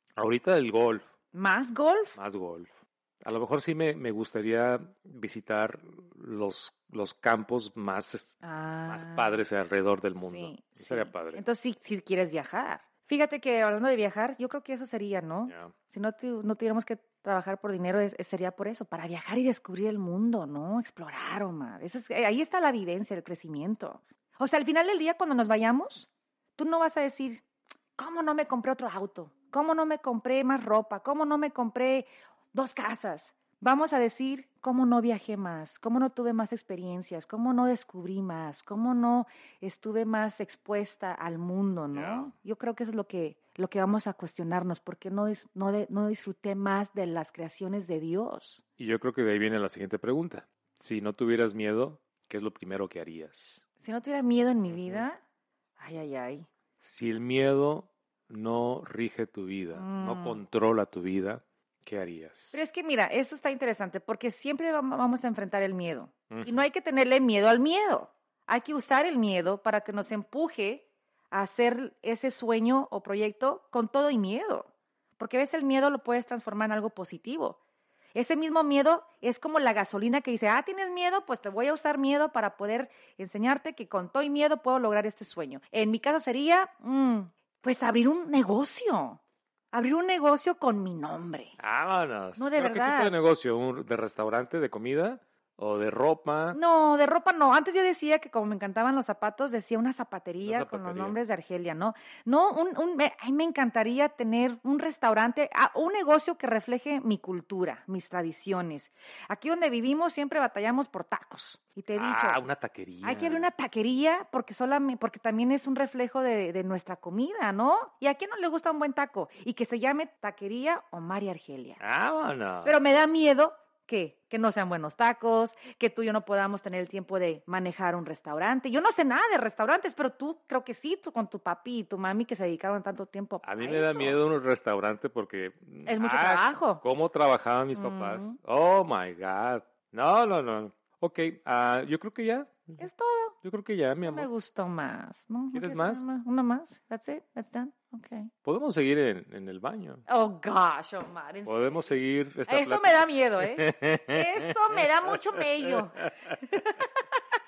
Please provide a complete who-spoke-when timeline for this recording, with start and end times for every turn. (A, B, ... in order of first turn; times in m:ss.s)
0:00.2-0:01.1 A
0:01.3-0:02.2 B
0:02.2-0:11.4 A
0:08.4-0:09.4 B
0:10.2-0:27.4 B
0:15.5-0:15.7 A
0:28.0-0:48.6 B
0:41.9-0:42.3 A
0:48.8-0:53.6 A
0:53.8-0:55.2 B
0:54.7-0:55.1 A
0:55.8-0:56.5 B
0:56.8-1:02.5 A
0:59.7-1:00.4 B
1:02.5-1:17.6 B
1:06.3-1:06.6 A
1:18.2-1:29.2 B
1:29.7-1:31.6 B
1:31.6-1:36.6 A
1:32.4-1:33.1 B
1:36.5-1:52.4 B
1:40.4-1:41.2 A
1:52.0-1:53.5 A
1:53.0-2:01.8 B
2:01.8-2:02.8 A
2:02.6-2:14.2 B
2:13.4-2:22.8 A
2:15.9-2:16.8 B
2:17.8-2:18.4 B
2:22.8-2:23.4 B
2:23.4-2:24.3 A
2:24.0-2:28.3 B
2:25.5-2:26.0 A
2:28.4-2:30.0 A
2:30.1-2:31.9 B
2:31.5-2:36.4 A
2:32.5-2:37.0 B